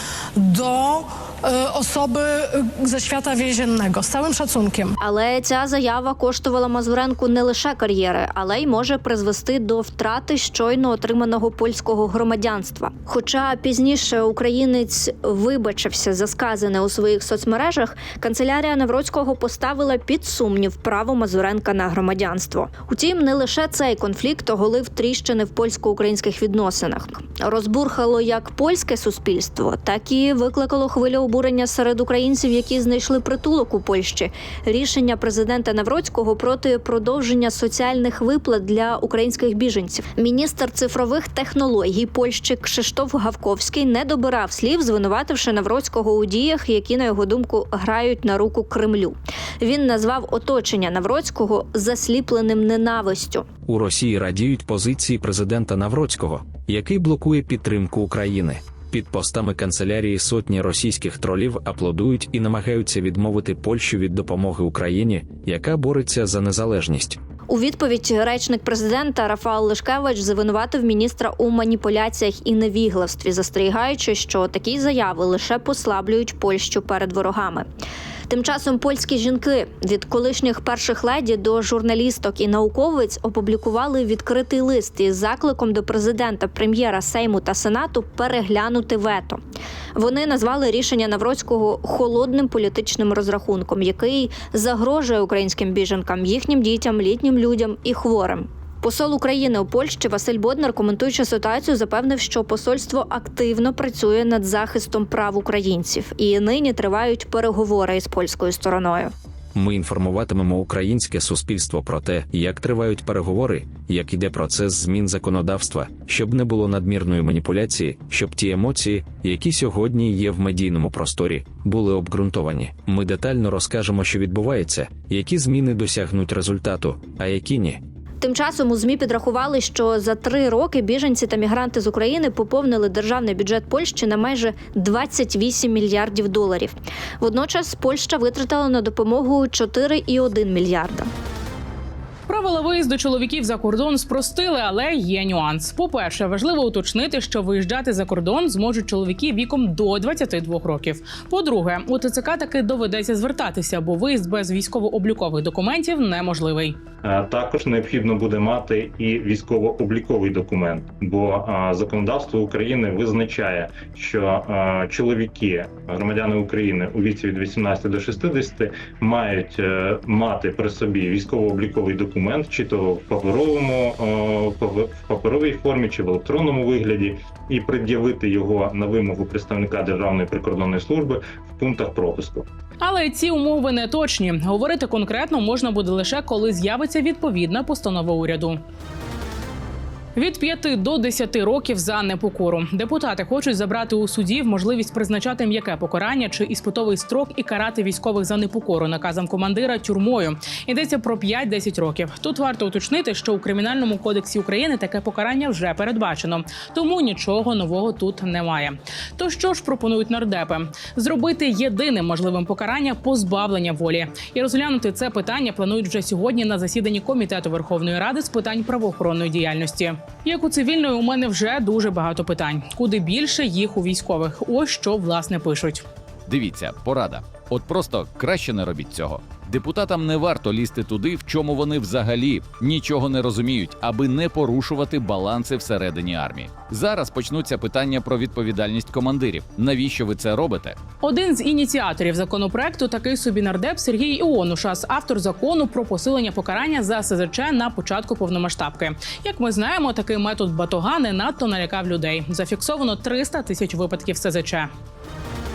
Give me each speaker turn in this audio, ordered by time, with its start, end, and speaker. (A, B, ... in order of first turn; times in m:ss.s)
0:00.4-0:05.0 A
0:05.0-0:53.5 B
0:53.7-1:07.2 C
1:07.5-1:17.7 B
1:18.3-1:29.4 B
1:30.0-1:49.1 B
1:49.6-2:07.8 C
2:08.2-2:21.1 B
2:22.3-2:36.8 D
2:37.0-3:02.5 E
3:02.8-3:08.6 D
3:10.2-3:45.8 D
3:46.3-4:00.8 F
4:01.0-4:14.7 D